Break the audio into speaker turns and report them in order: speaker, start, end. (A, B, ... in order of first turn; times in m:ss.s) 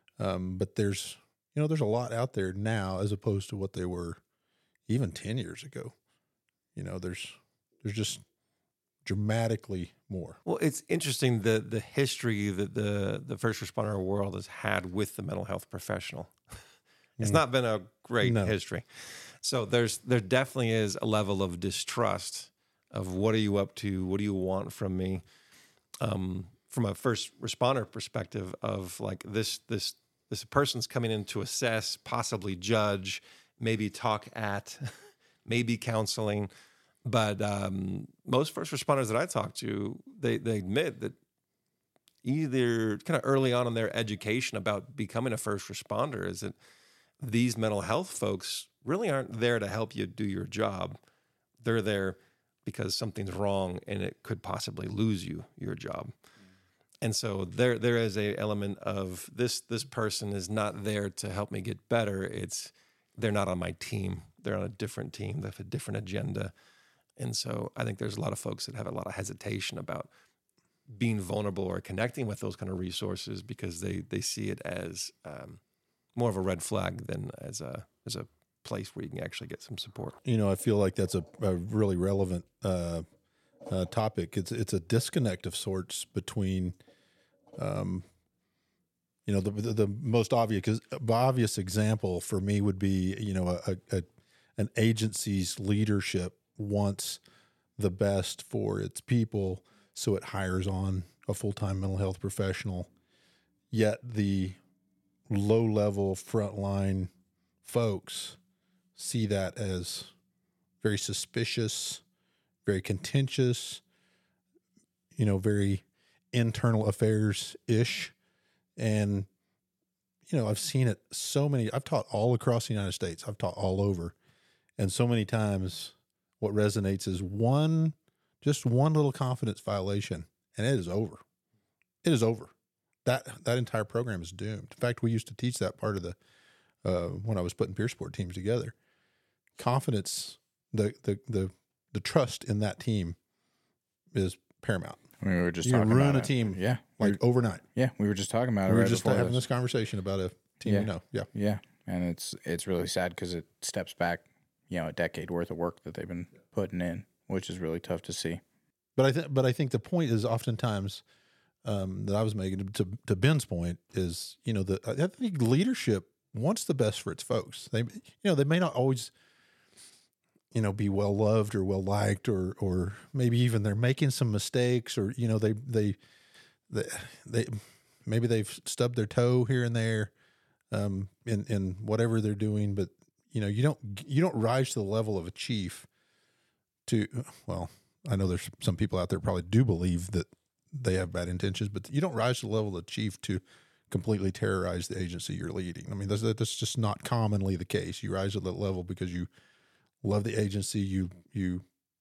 0:00.2-0:04.2 A
0:04.9-0:06.0 A
0:06.8-0:08.2 A
0:09.0-0:10.4 A
0:10.5-0:16.3 B
0:17.2-0:25.2 B
0:18.2-0:18.5 A
0:26.0-0:34.9 B
0:35.5-0:36.5 B
0:37.1-0:41.2 B
0:42.2-0:46.5 B
0:47.2-0:51.0 B
0:51.6-0:56.1 B
0:57.0-1:06.5 B
1:07.2-1:10.1 B
1:10.9-1:15.6 B
1:16.2-1:20.2 B
1:20.2-1:23.0 A
1:23.7-1:26.8 A
1:27.6-1:28.0 A
1:29.3-1:37.2 A
1:37.8-1:42.9 A
1:43.7-1:44.6 A
1:45.3-1:47.1 A
1:47.6-1:48.4 A
1:49.0-1:50.1 A
1:50.8-1:52.0 A
1:52.6-1:53.8 A
1:55.2-1:58.1 A
1:58.8-1:59.3 A
2:00.3-2:04.2 A
2:04.8-2:11.2 A
2:12.0-2:12.5 A
2:13.0-2:16.2 A
2:16.8-2:18.7 A
2:19.6-2:23.2 A
2:24.1-2:25.0 A
2:25.2-2:27.2 C
2:25.6-2:27.6 A
2:27.8-2:29.4 C
2:28.6-2:31.3 A
2:30.7-2:38.4 C
2:39.0-2:41.0 A
2:41.6-2:49.1 A
2:50.5-2:56.0 A
2:56.7-3:00.1 A
3:00.7-3:05.9 A
3:06.9-3:19.3 A
3:20.0-3:21.6 A